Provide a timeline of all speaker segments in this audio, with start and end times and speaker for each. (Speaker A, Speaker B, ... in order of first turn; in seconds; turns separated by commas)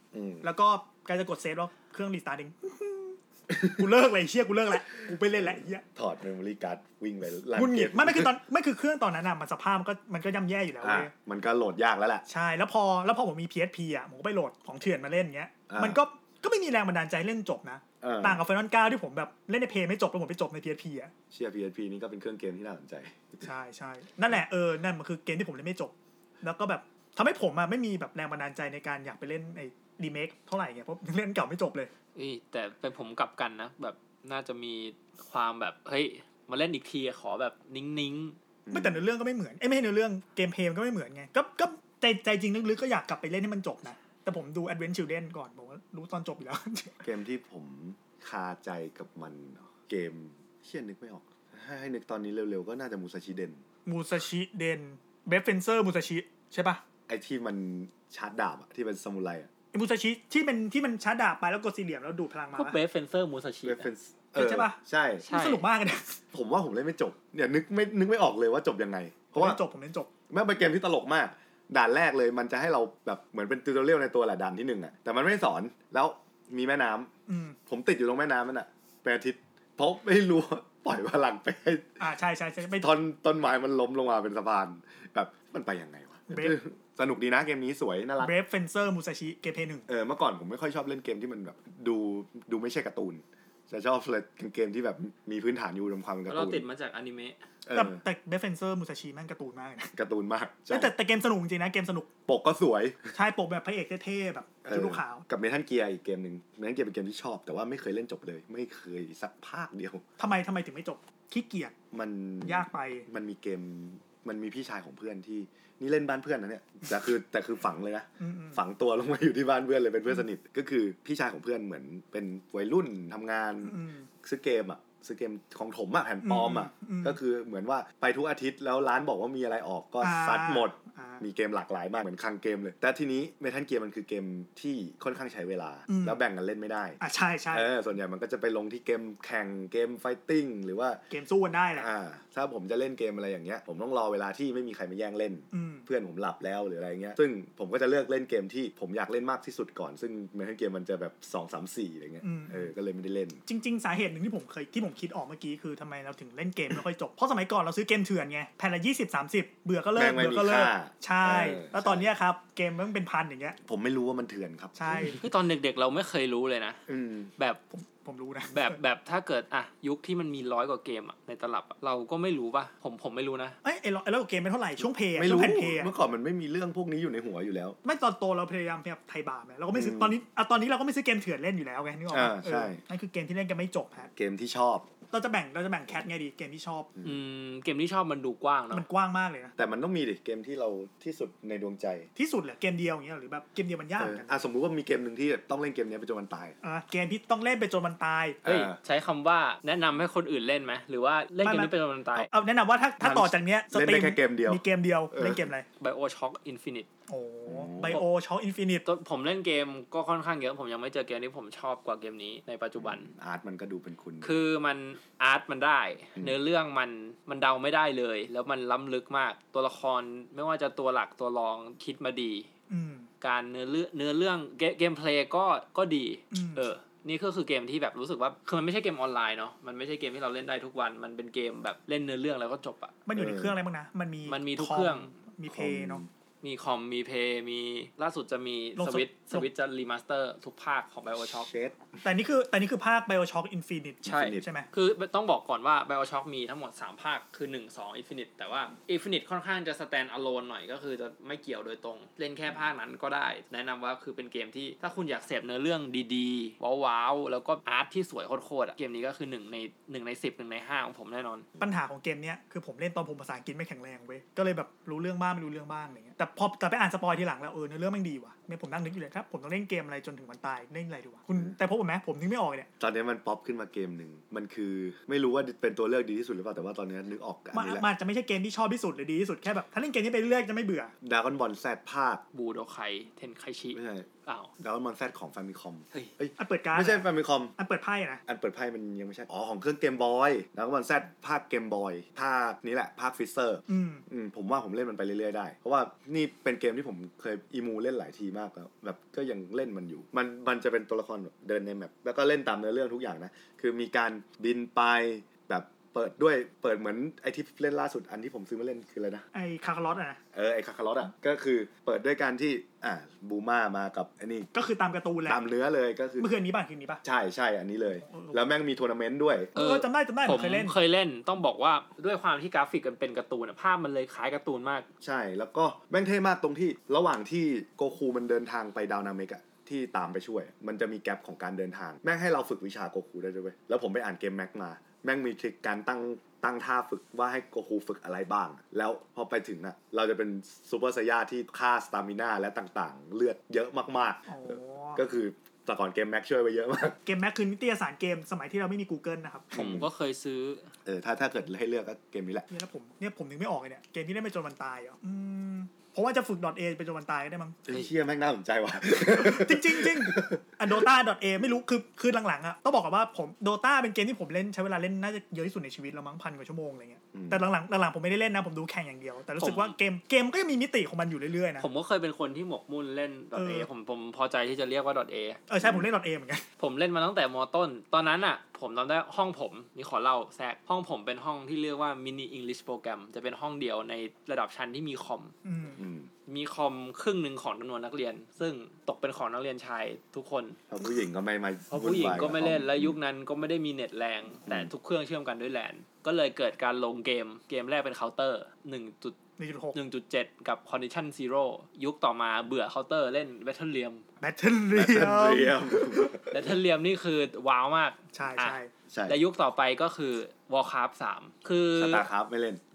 Speaker A: 0.1-0.5, Speaker B: 0.4-5.8, Speaker A: 3.5-3.8, Speaker A: 5.3-8.3, Speaker B: 7.6-11.1, Speaker A: 10.8-12.2, Speaker B: 12.3-21.1, Speaker A: 15.7-16.0, Speaker A: 18.0-18.4, Speaker A: 21.3-23.4, Speaker B: 23.4-31.9, Speaker C: 32.1-38.4, Speaker A: 38.6-39.0, Speaker B: 38.7-47.0, Speaker A: 47.0-53.6, Speaker B: 53.9-56.8, Speaker A: 57.1-59.5, Speaker B: 59.7-62.8, Speaker C: 62.5-63.9, Speaker A: 63.6-65.2, Speaker B: 64.3-66.2, Speaker C: 65.2-65.6, Speaker A: 66.3-69.6, Speaker B: 69.3-70.1, Speaker A: 70.3-77.1, Speaker B: 77.3-77.6, Speaker A: 77.7-82.0, Speaker B: 82.0-82.9, Speaker A: 82.8-88.3, Speaker B: 86.3-86.6, Speaker B: 88.2-89.9, Speaker A: 89.9-96.7, Speaker C: 96.3-97.4, Speaker A: 97.7-98.0, Speaker B: 97.7-99.9, Speaker A: 100.0-100.9, Speaker B: 100.7-102.1, Speaker A: 102.3-103.1, Speaker B: 103.2-105.2, Speaker A: 104.7-110.0, Speaker B: 110.2-111.7, Speaker A: 111.9-137.0, Speaker B: 112.5-113.1, Speaker B: 118.2-118.6, Speaker B: 123.6-124.1, Speaker B: 126.2-127.2, Speaker B: 130.0-131.2, Speaker B: 135.9-136.2, Speaker B: 137.0-137.7, Speaker A: 137.5-141.0, Speaker B: 141.1-141.9, Speaker A: 141.8-153.4, Speaker B: 145.5-145.9, Speaker B: 152.2-152.7, Speaker B: 153.5-163.6, Speaker A: 159.9-162.1, Speaker A: 163.6-165.2, Speaker B: 164.8-165.2, Speaker C: 165.1-166.8, Speaker A: 166.9-167.3, Speaker B: 167.7-168.8, Speaker C: 168.5-173.6, Speaker B: 173.6-175.9, Speaker A: 175.2-177.8, Speaker B: 177.8-184.1, Speaker A: 179.7-180.2, Speaker A: 182.1-182.8, Speaker A: 184.1-184.9, Speaker B: 185.1-186.9, Speaker C: 187.0-188.8, Speaker B: 188.7-189.6, Speaker A: 189.6-192.1, Speaker B: 192.2-194.3, Speaker A: 194.0-196.6, Speaker B: 196.6-198.4, Speaker A: 198.4-198.8, Speaker C: 198.4-202.3, Speaker B: 201.4-201.7, Speaker B: 202.3-205.7, Speaker A: 203.0-205.5, Speaker C: 205.8-206.9, Speaker B: 207.1-208.8, Speaker A: 207.5-208.0, Speaker C: 208.8-213.1, Speaker A: 212.8-214.4, Speaker C: 214.2-222.5, Speaker B: 222.7-223.1, Speaker C: 223.2-232.9, Speaker B: 226.3-226.6, Speaker B: 233.1-236.0, Speaker A: 233.2-233.6, Speaker C: 234.3-235.1, Speaker A: 235.5-236.1, Speaker C: 236.4-241.5, Speaker B: 238.8-239.5, Speaker A: 241.2-242.0, Speaker B: 242.0-244.7, Speaker A: 244.1-244.4, Speaker C: 244.1-261.5, Speaker B: 261.6-272.7, Speaker A: 272.8-277.9, Speaker B: 277.5-280.9, Speaker A: 281.0-282.2, Speaker C: 282.3-284.5, Speaker A: 283.7-287.5, Speaker B: 286.4-288.2, Speaker A: 288.3-309.2, Speaker B: 293.7-294.1, Speaker B: 309.3-310.2, Speaker A: 310.3-314.5, Speaker B: 314.5-315.4, Speaker A: 315.3-316.3, Speaker B: 316.2-317.0, Speaker A: 317.0-319.5, Speaker B: 318.0-318.4, Speaker B: 319.6-320.8, Speaker C: 319.6-324.9, Speaker A: 325.0-347.0, Speaker B: 344.3-345.0, Speaker B: 347.1-349.5, Speaker A: 349.5-349.9, Speaker C: 349.5-350.7, Speaker A: 350.9-352.5, Speaker B: 352.5-357.6, Speaker A: 357.7-360.9, Speaker B: 359.1-371.6, Speaker A: 367.1-367.4, Speaker C: 369.4-369.8, Speaker C: 371.6-375.4, Speaker B: 373.4-373.7, Speaker B: 375.5-376.4, Speaker A: 375.6-375.9, Speaker C: 376.6-385.3, Speaker B: 385.4-385.8, Speaker A: 385.8-386.1, Speaker C: 386.3-390.6, Speaker A: 390.7-393.0, Speaker C: 391.7-399.2, Speaker B: 399.4-399.8, Speaker C: 399.7-404.1, Speaker B: 404.2-406.1, Speaker A: 404.7-406.5, Speaker C: 406.3-412.1, Speaker B: 408.1-408.7, Speaker A: 408.9-409.2, Speaker A: 411.8-412.6